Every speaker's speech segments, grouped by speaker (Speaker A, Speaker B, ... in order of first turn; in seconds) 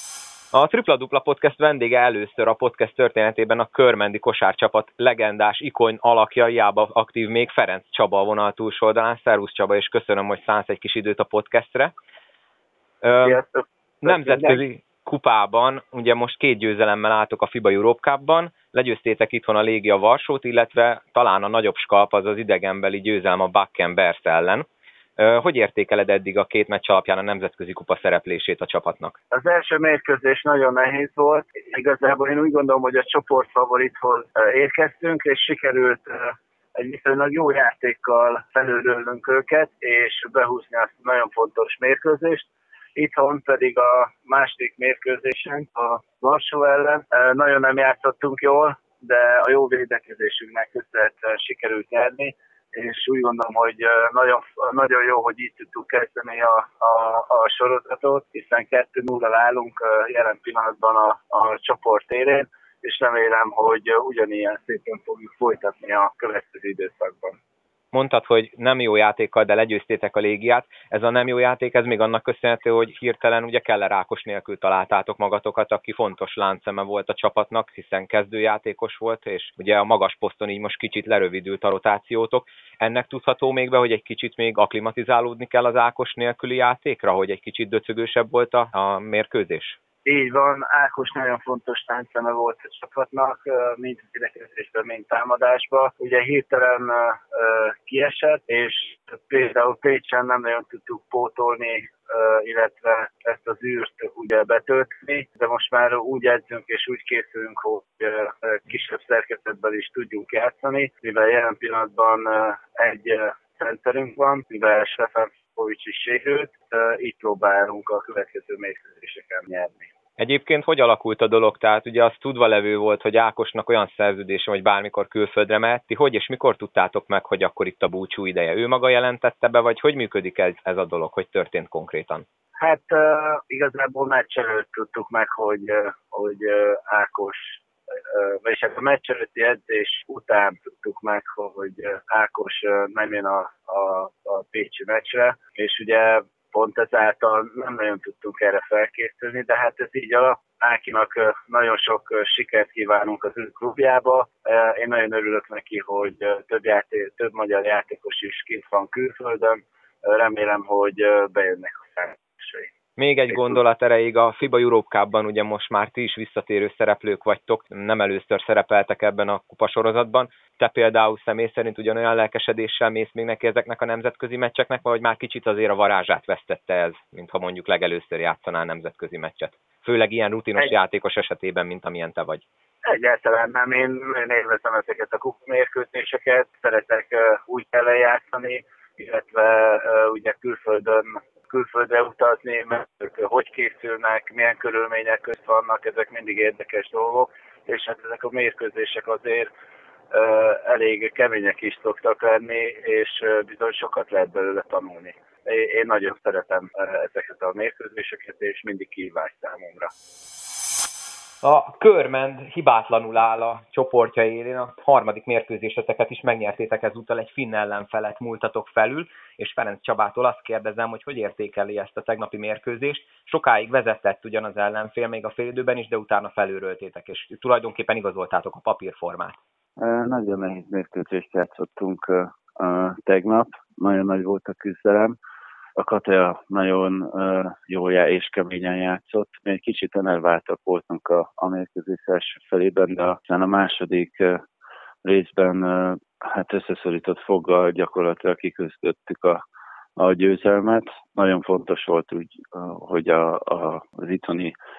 Speaker A: 0.5-11.9, 13.0-13.4, 14.0-24.6, 25.2-29.1, 67.9-89.8, 120.2-132.2, 163.0-182.4, 211.4-229.4
Speaker B: 13.2-14.6, 29.3-67.3, 90.0-119.9, 132.6-162.7, 182.8-199.5, 200.1-209.9
Speaker C: 229.8-235.2, 235.8-244.4, 245.0-249.4, 250.0-254.5